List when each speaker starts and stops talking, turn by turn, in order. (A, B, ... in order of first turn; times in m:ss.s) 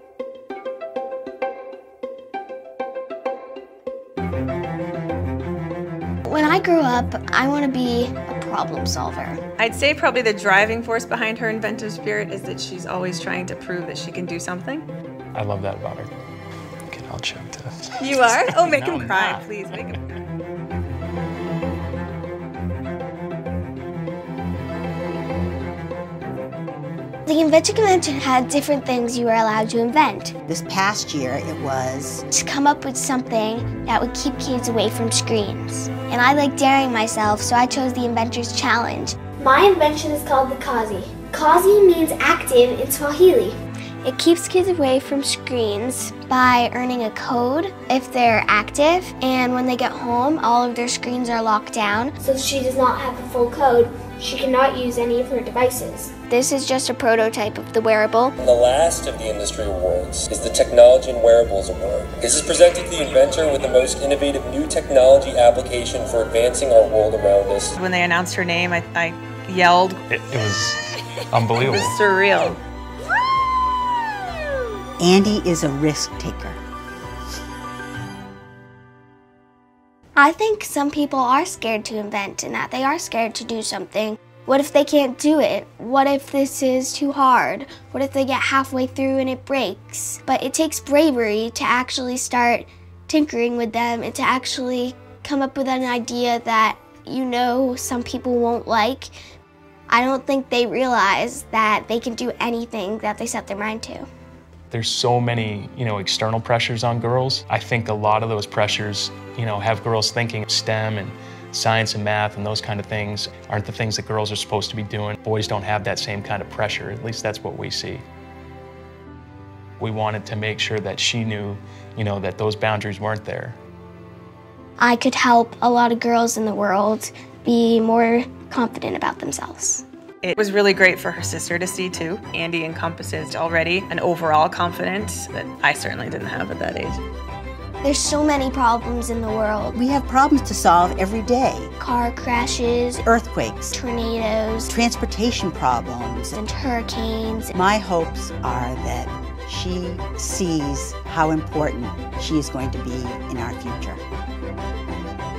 0:06.3-0:09.4 A
0:09.6-0:14.9 B
0:15.4-0:16.1 C
0:16.9-0:19.5 C
0:18.0-0:20.2 B
0:27.3-0:30.3 A
0:30.5-0:32.2 D
0:32.3-0:58.3 A
0:58.4-1:07.7 E
1:07.8-1:10.0 B
1:10.1-1:10.8 C
1:11.3-1:12.0 C
1:11.6-1:12.6 B
1:15.0-1:16.6 D
1:20.2-1:39.1 A
1:39.9-1:44.1 A
1:44.7-1:58.0 C
1:59.8-2:03.6 C
2:04.8-2:09.8 A
2:10.2-2:17.0 B
2:17.8-2:19.8 A
2:19.7-2:21.7 D
2:21.8-2:23.0 A
2:23.0-2:23.8 D
2:23.7-2:24.7 A
2:24.7-2:26.4 D
2:26.4-2:27.6 A
2:27.5-2:34.0 D